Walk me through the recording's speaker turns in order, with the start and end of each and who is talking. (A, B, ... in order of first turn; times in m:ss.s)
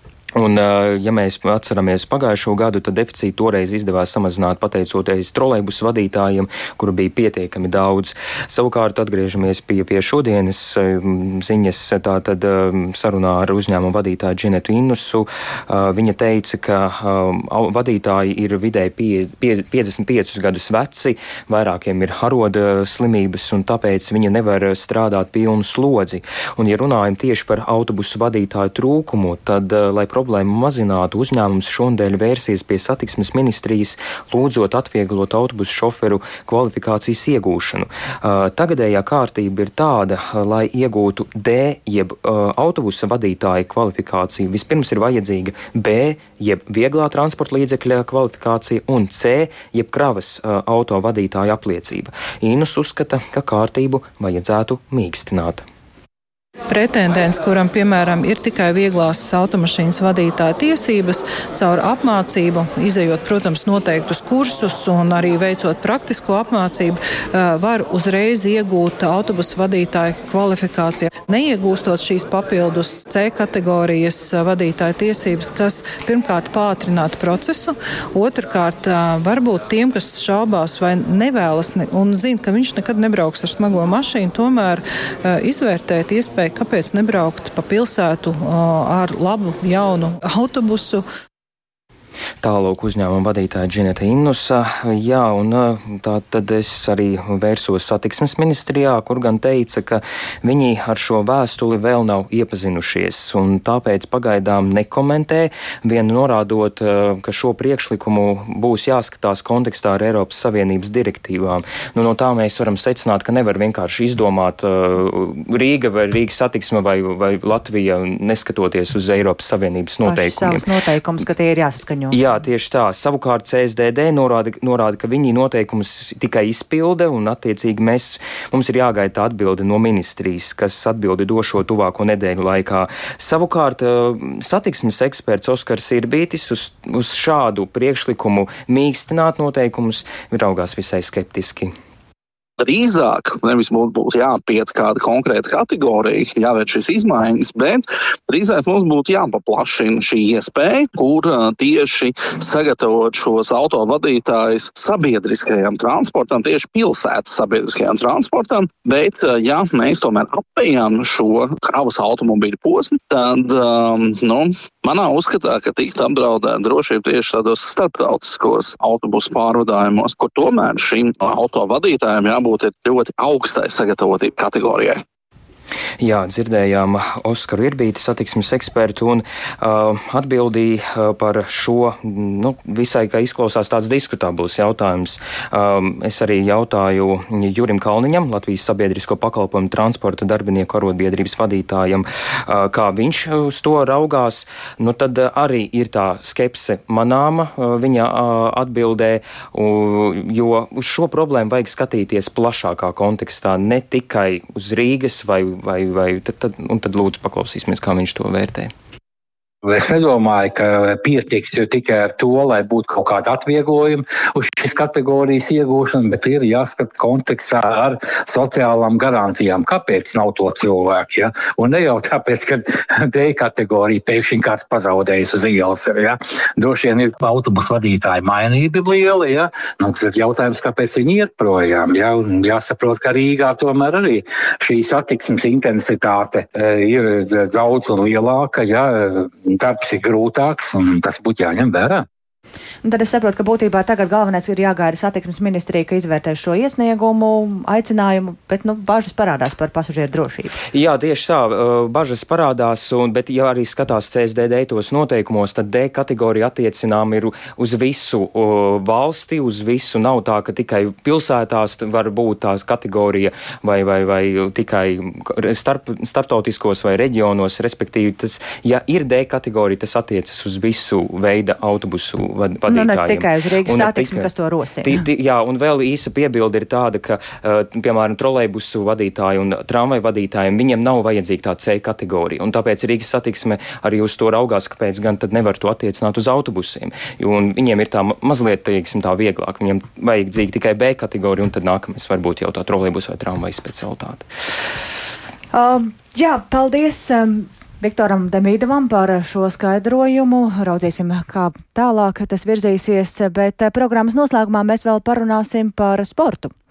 0:00.4-0:55.6 A
0:56.7-1:31.0 B
1:32.4-2:00.6 A
2:00.0-2:02.4 C
2:02.1-2:21.7 A
2:22.6-2:55.0 D
2:56.0-3:28.7 A
3:29.6-4:02.0 E
4:02.8-4:10.6 C
4:10.7-4:34.3 A
4:32.7-4:35.0 C
4:34.8-4:54.3 A
4:55.5-5:06.5 C